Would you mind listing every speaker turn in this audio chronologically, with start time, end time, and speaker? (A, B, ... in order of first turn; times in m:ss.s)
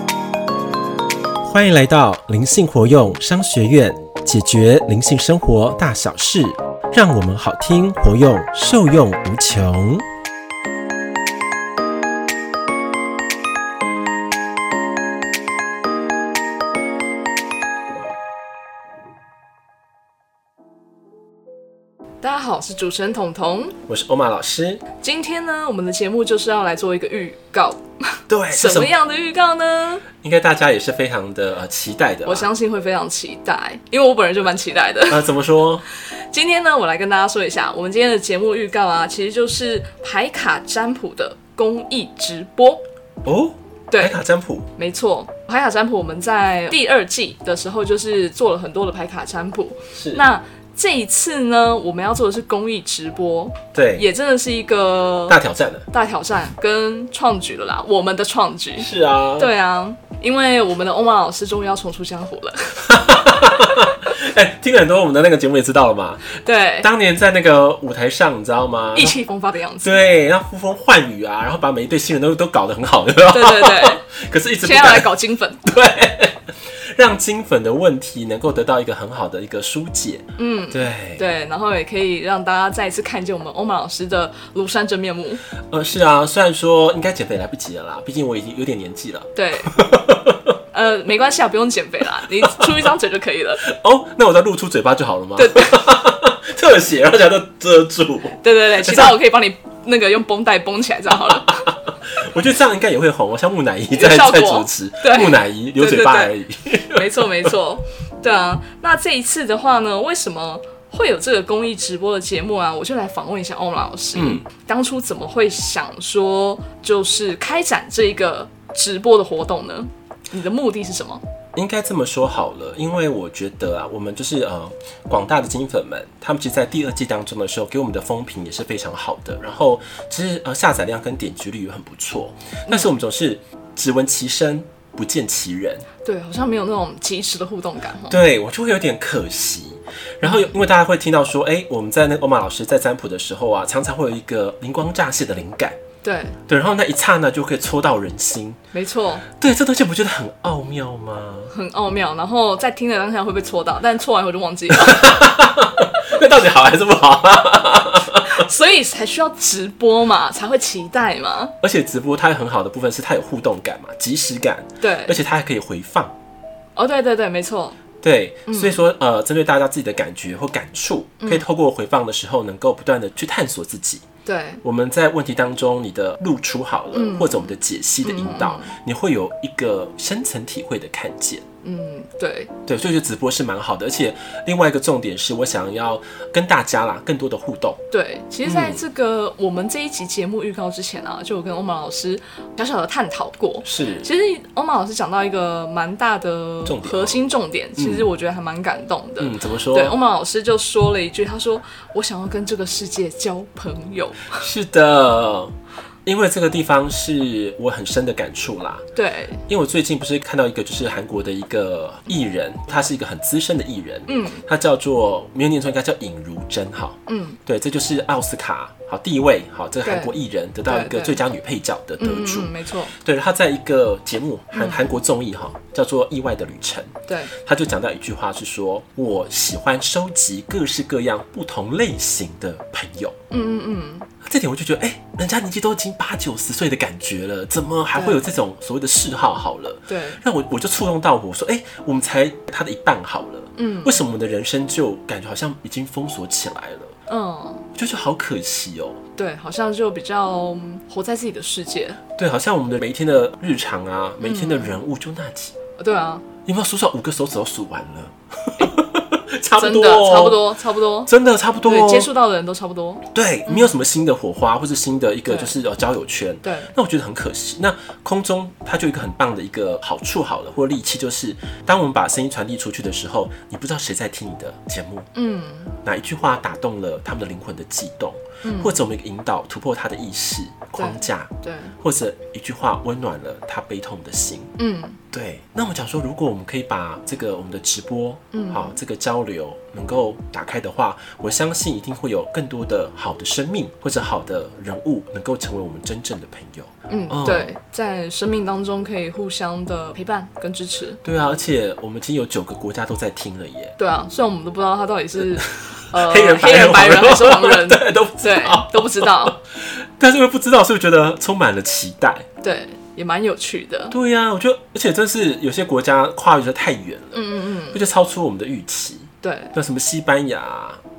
0:01.4-0:10.0 A
0:22.2-0:23.8 B
0:23.8-0:24.8 A
0:25.0-0:30.0 B
0:28.3-0:28.9 A
0:30.2-0:32.5 A
0:32.2-0:35.3 B
0:35.1-0:35.8 A
0:35.8-0:42.8 B
0:43.2-0:44.7 A
0:43.9-0:44.2 B
0:44.8-0:55.4 B
0:49.9-0:50.2 A
0:53.7-0:54.0 A
0:55.3-0:55.9 A
0:55.9-1:03.4 B
0:58.8-0:59.5 A
1:02.9-1:09.2 A
1:06.3-1:06.9 B
1:08.9-1:10.0 B
1:09.8-1:15.1 A
1:13.3-1:14.1 B
1:14.6-1:15.7 B
1:15.6-1:21.2 A
1:20.4-1:25.4 B
1:25.7-1:30.4 A
1:29.3-1:29.8 B
1:30.7-1:33.6 B
1:33.6-1:39.1 A
1:35.4-1:35.9 B
1:38.4-1:41.7 B
1:42.1-1:47.5 A
1:43.9-1:46.3 B
1:46.9-2:01.2 B
1:54.1-1:54.4 A
2:01.5-2:15.8 A
2:16.0-2:18.2 B
2:18.1-2:25.8 A
2:20.2-2:20.5 B
2:26.0-2:26.4 B
2:26.5-2:28.6 A
2:28.7-2:29.2 B
2:29.3-2:31.5 A
2:31.5-2:35.2 B
2:34.8-2:38.3 A
2:38.2-2:41.5 B
2:41.6-2:46.1 A
2:44.8-2:45.2 B
2:46.8-2:47.8 B
2:48.0-2:54.0 A
2:48.5-2:48.8 B
2:54.2-2:54.6 B
2:54.6-3:01.4 A
2:56.9-2:58.7 B
3:01.6-3:02.5 B
3:02.6-3:07.8 A
3:07.9-3:24.4 B
3:08.4-3:08.8 A
3:13.6-3:14.1 A
3:16.6-3:17.2 A
3:17.8-3:18.1 A
3:19.2-3:19.9 A
3:24.4-3:25.5 A
3:26.0-3:28.8 A
3:28.9-3:29.4 B
3:29.5-3:53.2 A
3:34.1-3:34.4 B
3:37.1-3:37.4 B
3:39.8-3:41.2 B
3:42.0-3:42.9 B
3:44.5-3:44.9 B
3:53.3-3:54.1 B
3:54.2-4:06.9 A
3:57.9-3:58.2 B
3:59.9-4:00.2 B
4:03.6-4:04.0 B
4:07.1-4:07.7 B
4:07.7-4:09.0 A
4:09.2-4:12.0 B
4:12.2-4:15.5 A
4:14.2-4:14.8 B
4:15.8-4:16.2 B
4:16.4-4:20.4 A
4:19.6-4:21.1 B
4:21.0-4:22.1 A
4:21.6-4:23.7 B
4:23.1-4:35.1 A
4:25.3-4:25.5 B
4:26.4-4:26.7 B
4:35.1-4:35.8 B
4:35.8-4:44.5 A
4:38.4-4:38.8 B
4:40.8-4:41.8 B
4:44.6-4:45.0 B
4:45.1-4:57.5 A
4:48.3-4:48.7 B
4:56.9-5:01.0 B
5:01.0-5:03.7 A
5:03.8-5:09.4 B
5:05.6-5:12.3 A
5:12.4-5:13.9 B
5:13.9-5:20.8 A
5:17.1-5:17.8 B
5:19.2-5:19.5 B